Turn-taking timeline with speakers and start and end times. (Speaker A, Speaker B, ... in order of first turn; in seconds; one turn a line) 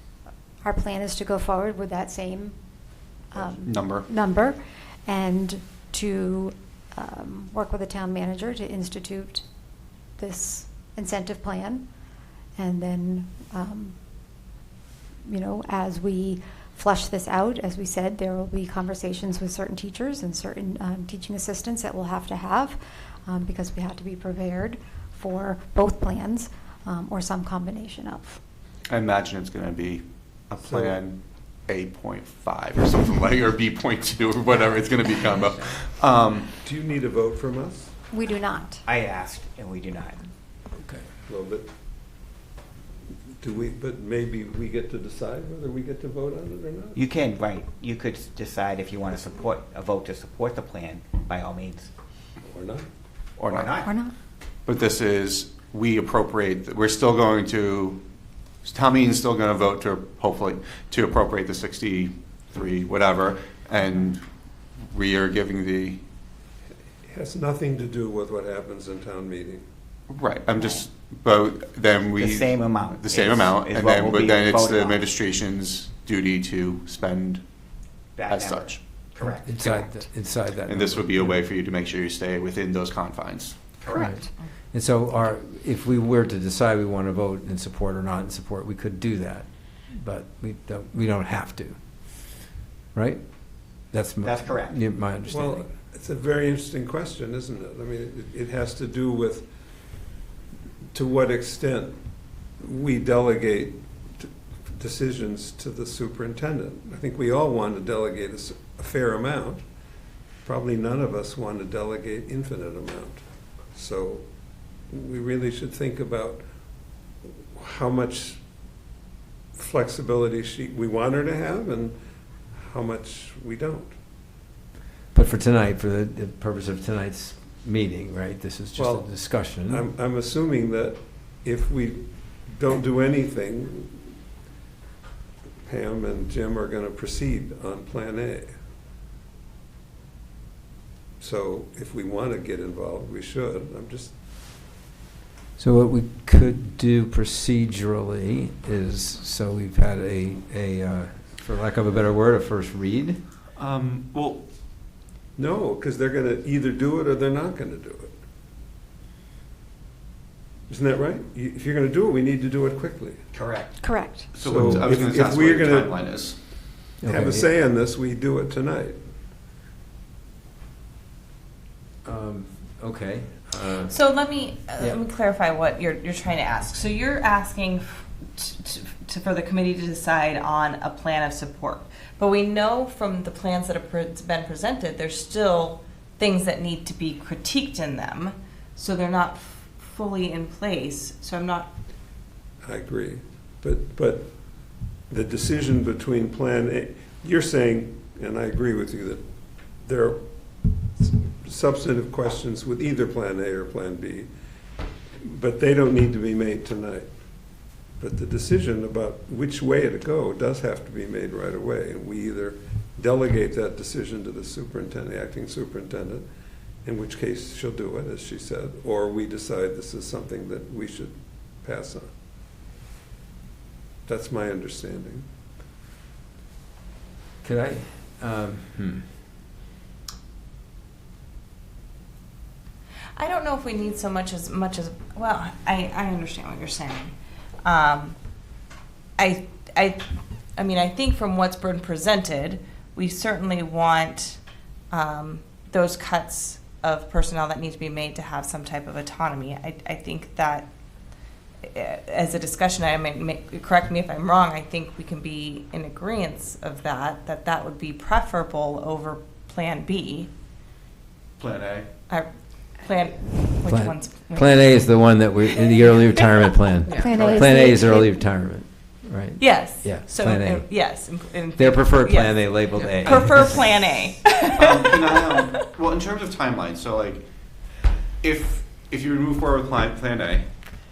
Speaker A: 0.6-2.6
Speaker A: 3.3-9.4
Speaker B: 3.4-4.1
Speaker A: 10.2-11.9
Speaker A: 12.6-13.9
Speaker A: 15.3-28.4
Speaker B: 28.9-36.5
Speaker C: 30.6-31.0
Speaker C: 36.6-38.0
Speaker A: 38.1-38.9
Speaker D: 38.9-40.2
Speaker C: 41.3-41.7
Speaker C: 43.4-47.0
Speaker D: 46.9-51.9
Speaker C: 52.4-52.9
Speaker B: 53.4-53.7
Speaker D: 53.6-53.9
Speaker A: 53.9-54.1
Speaker B: 54.7-58.0
Speaker B: 58.6-64.2
Speaker B: 64.8-66.0
Speaker C: 67.1-69.6
Speaker B: 70.1-77.5
Speaker D: 72.2-75.0
Speaker D: 78.2-79.6
Speaker B: 78.3-78.8
Speaker E: 79.4-81.4
Speaker B: 80.7-83.8
Speaker D: 83.8-84.1
Speaker E: 83.9-95.6
Speaker D: 94.3-94.8
Speaker C: 95.3-99.5
Speaker C: 100.9-102.0
Speaker C: 102.6-109.6
Speaker C: 110.4-114.3
Speaker C: 114.9-116.4
Speaker C: 117.2-118.4
Speaker C: 119.5-122.0
Speaker C: 122.5-124.0
Speaker E: 125.1-129.9
Speaker C: 128.8-134.1
Speaker C: 135.7-138.5
Speaker C: 141.2-144.1
Speaker E: 145.6-153.2
Speaker B: 153.6-154.5
Speaker C: 155.4-158.1
Speaker C: 160.7-163.2
Speaker D: 163.3-163.7
Speaker A: 163.8-164.3
Speaker B: 164.3-166.4
Speaker C: 164.4-166.0
Speaker E: 164.6-164.8
Speaker E: 167.0-167.5
Speaker C: 167.0-169.0
Speaker E: 172.0-174.0
Speaker F: 173.9-191.7
Speaker C: 192.6-194.3
Speaker C: 195.1-199.2
Speaker C: 199.8-204.3
Speaker C: 205.2-207.1
Speaker C: 208.0-216.3
Speaker C: 216.8-222.1
Speaker C: 224.1-225.3
Speaker E: 227.4-229.2
Speaker F: 233.2-237.1
Speaker F: 237.7-238.2
Speaker F: 239.2-240.1
Speaker F: 240.6-244.4
Speaker F: 244.9-250.7
Speaker F: 251.7-260.3
Speaker B: 261.4-261.9
Speaker F: 262.1-265.1
Speaker E: 263.6-273.6
Speaker F: 266.9-267.4
Speaker A: 267.0-268.3
Speaker F: 269.4-275.6
Speaker B: 272.8-273.7
Speaker B: 274.6-277.3
Speaker B: 278.2-280.5